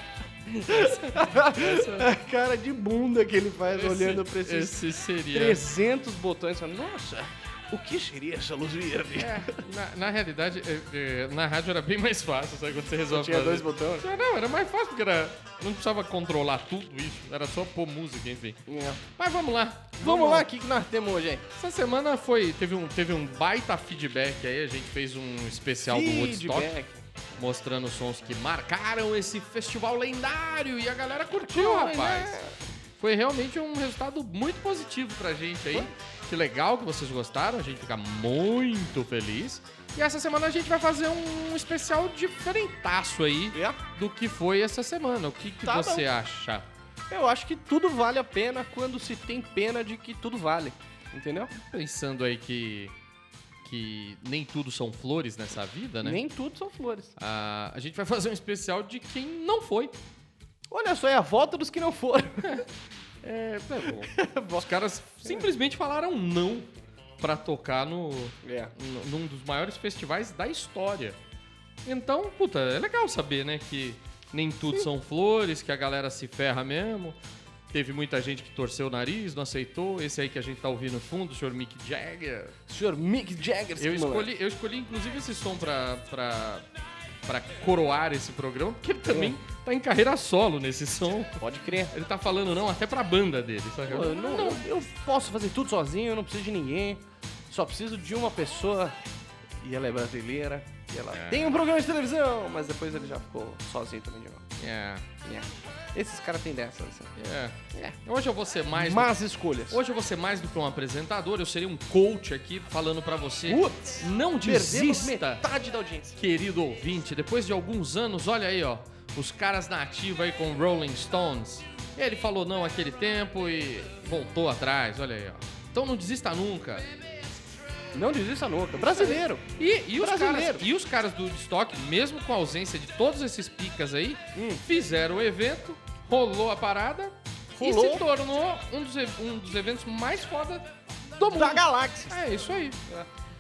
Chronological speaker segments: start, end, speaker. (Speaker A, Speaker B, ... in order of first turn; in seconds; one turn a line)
Speaker A: 0.5-2.1
Speaker B: 0.6-9.6
Speaker A: 3.7-5.6
Speaker A: 9.2-18.6
Speaker B: 13.1-14.1
Speaker B: 18.7-19.0
Speaker A: 19.2-20.5
Speaker B: 20.0-21.4
Speaker A: 21.6-26.8
Speaker B: 25.8-27.1
Speaker A: 27.4-32.4
Speaker B: 31.4-32.5
Speaker A: 33.0-46.7
Speaker B: 43.5-43.8
Speaker B: 45.6-46.1
Speaker B: 47.1-51.5
Speaker A: 51.5-52.9
Speaker A: 53.6-56.2
Speaker B: 56.0-57.1
Speaker A: 57.2-60.0
Speaker B: 60.7-62.6
Speaker A: 63.2-71.2
Speaker B: 64.1-64.7
Speaker B: 65.2-65.5
Speaker B: 68.4-68.7
Speaker A: 71.8-77.2
Speaker A: 77.7-82.5
Speaker B: 82.7-84.3
Speaker A: 83.8-86.7
Speaker A: 87.2-94.6
Speaker B: 89.1-89.4
Speaker B: 91.4-91.9
Speaker B: 93.9-99.0
Speaker B: 99.6-104.5
Speaker A: 101.1-101.6
Speaker A: 104.6-105.1
Speaker B: 105.2-107.1
Speaker A: 107.2-109.2
Speaker B: 108.7-109.8
Speaker A: 109.7-115.4
Speaker B: 113.5-116.2
Speaker A: 116.2-126.9
Speaker B: 127.9-129.5
Speaker A: 128.9-142.8
Speaker B: 130.0-130.6
Speaker B: 134.3-134.6
Speaker B: 137.5-138.1
Speaker B: 141.2-142.2